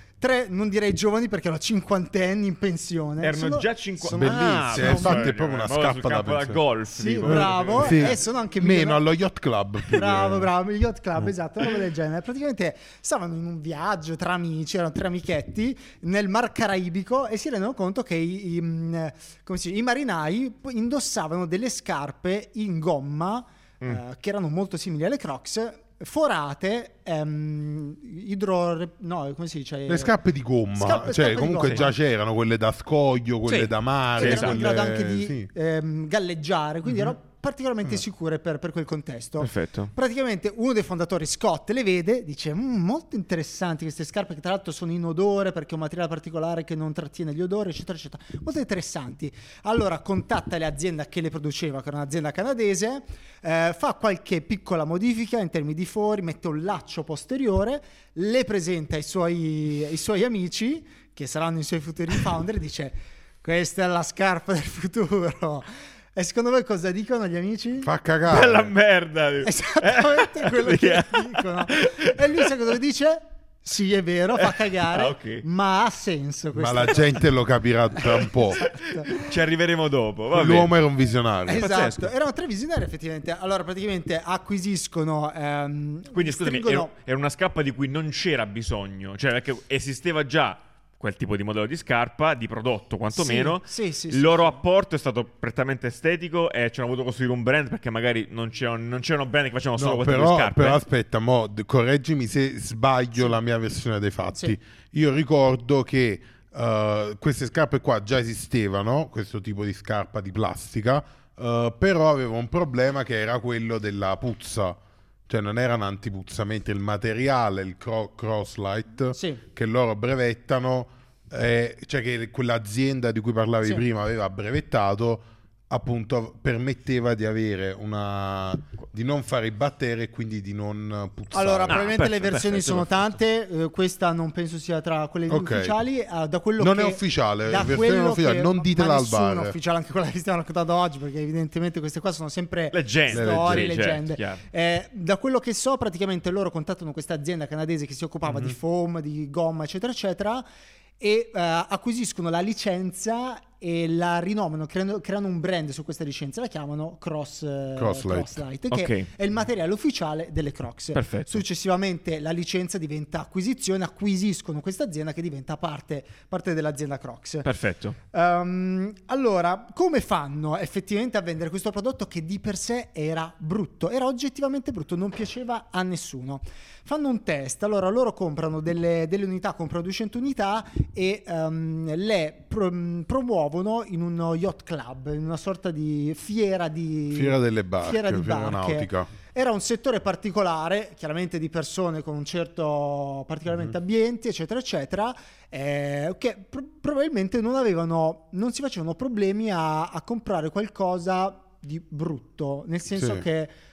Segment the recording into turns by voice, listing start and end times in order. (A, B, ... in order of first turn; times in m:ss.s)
0:00.2-0:05.3 A
0:03.2-0:08.2 B
0:04.1-0:06.6 C
0:06.9-0:09.0 A
0:07.2-0:10.5 C
0:09.9-0:30.2 A
0:29.9-0:35.5 C
0:30.7-0:31.9 A
0:33.5-0:34.6 B
0:34.2-1:07.9 A
0:39.4-0:39.9 B
1:07.8-1:08.7 C
1:08.3-1:12.5 B
1:09.4-1:17.3 A
1:14.4-1:15.4 B
1:16.5-1:18.7 C
1:18.0-1:19.3 A
1:18.7-1:20.7 B
1:20.3-1:21.7 C
1:21.5-1:26.9 A
1:21.5-1:22.1 B
1:26.1-1:40.8 B
1:33.1-1:34.6 A
1:39.8-2:12.0 C
1:59.1-1:59.4 A
2:11.3-2:30.4 A
2:11.7-2:13.1 B
2:15.3-2:15.8 C
2:16.6-2:19.6 C
2:22.7-2:24.4 B
2:23.1-2:23.8 C
2:28.3-2:28.6 C
2:31.0-2:47.5 A
2:37.8-2:38.4 C
2:38.7-2:39.1 B
2:40.9-2:41.4 B
2:47.4-2:48.0 B
2:48.1-3:23.5 A
3:07.1-3:09.1 C
3:23.0-3:23.2 C